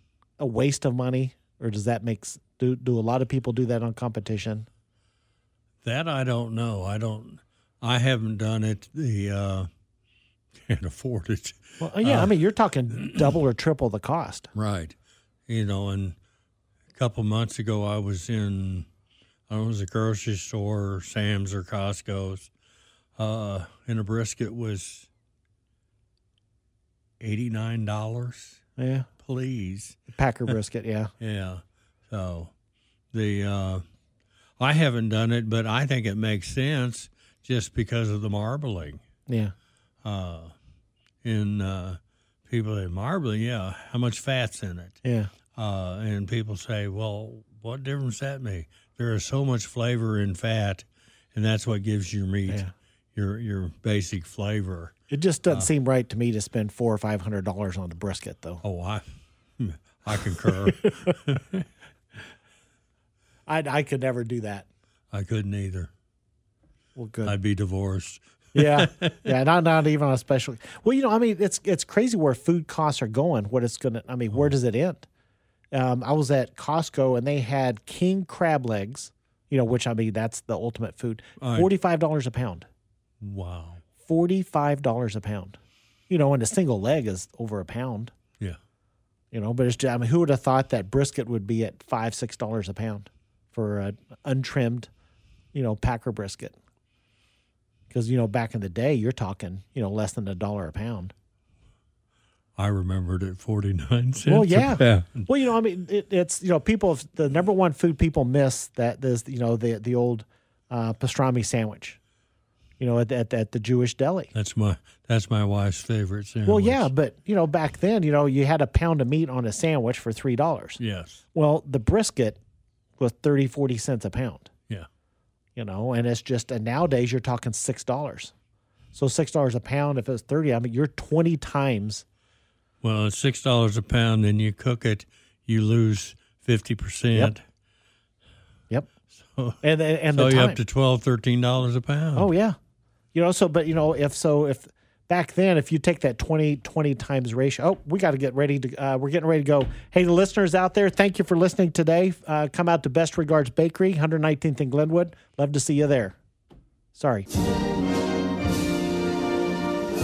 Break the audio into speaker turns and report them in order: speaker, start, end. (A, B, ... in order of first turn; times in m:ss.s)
0:00.4-0:04.7 A
0:05.8-0:09.7 B
0:10.5-0:12.3 B
0:11.8-0:14.5 A
0:14.5-0:15.0 B
0:15.5-0:16.2 B
0:16.9-0:18.9 B
0:19.5-0:22.5 B
0:23.2-0:25.1 B
0:27.2-0:28.6 B
0:28.8-0:29.1 A
0:29.2-0:30.0 B
0:30.1-0:31.1 A
0:31.2-0:32.5 B
0:33.1-0:33.8 B
0:34.6-0:39.0 B
0:39.3-0:39.5 A
0:40.0-0:40.5 B
0:41.2-0:45.0 B
0:45.0-0:45.3 A
0:45.5-0:55.0 B
0:55.1-0:58.6 A
0:58.6-0:59.1 B
0:59.6-1:01.7 B
1:00.4-1:01.1 A
1:03.5-1:04.7 A
1:05.1-1:05.9 B
1:07.0-1:07.3 A
1:07.2-1:09.3 B
1:08.5-1:15.1 A
1:15.7-1:22.7 A
1:21.4-1:21.7 B
1:23.2-1:23.8 B
1:24.0-1:28.1 A
1:29.3-1:34.9 A
1:35.5-1:36.6 A
1:37.9-1:41.1 A
1:42.6-1:45.3 B
1:44.3-1:52.0 A
1:52.8-1:54.3 A
1:54.3-1:56.9 B
1:56.5-2:00.8 A
2:00.8-2:01.2 B
2:01.3-2:02.4 A
2:03.0-2:04.5 A
2:05.6-2:08.3 A
2:08.9-2:12.0 A
2:12.8-2:17.4 B
2:19.1-2:22.3 B
2:19.6-2:20.6 A
2:22.2-2:22.6 A
2:23.1-2:36.2 A
2:37.0-2:37.3 A